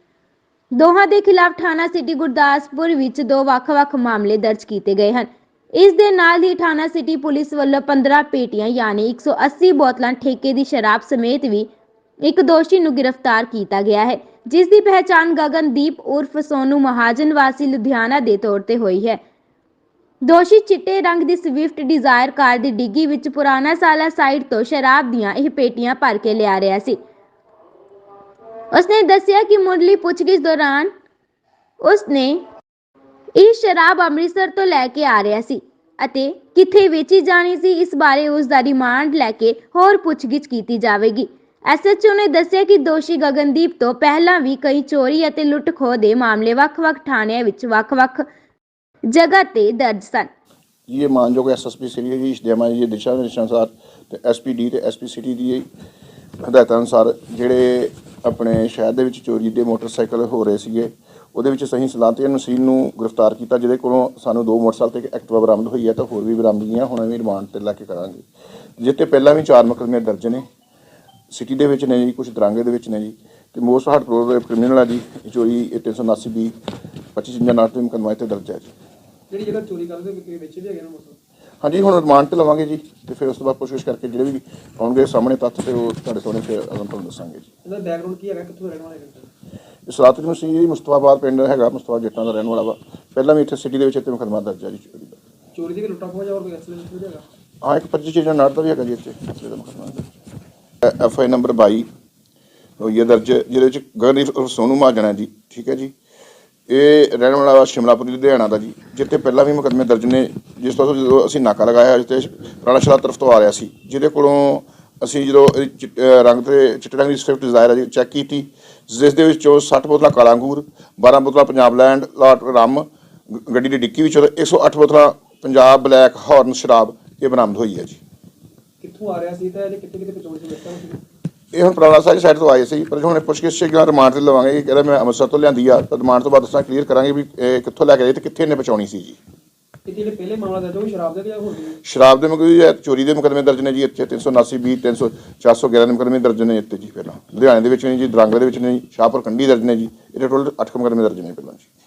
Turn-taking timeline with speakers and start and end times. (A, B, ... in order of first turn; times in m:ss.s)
0:00.7-0:11.7 A
0:12.2-0:19.2 A
0:20.2-0:27.0 A
0:28.7-0:30.9 A
0:31.8-0:32.4 A
0:33.4-0:48.2 A
0:49.1-0:50.3 A
0:50.9-0:55.7 B
0:56.4-1:08.2 B
1:08.8-1:10.4 B
1:11.3-1:16.6 B
1:17.1-1:18.7 B
1:19.3-1:21.2 C
1:21.6-1:27.5 B
1:27.6-1:29.3 C
1:29.8-1:35.2 B
1:35.5-1:37.2 C
1:37.6-1:40.1 B
1:40.8-1:41.9 B
1:42.8-1:45.9 B
1:46.7-2:08.0 B
2:08.8-2:11.0 C
2:11.5-2:19.2 B
2:19.9-2:21.8 C
2:21.8-2:31.7 B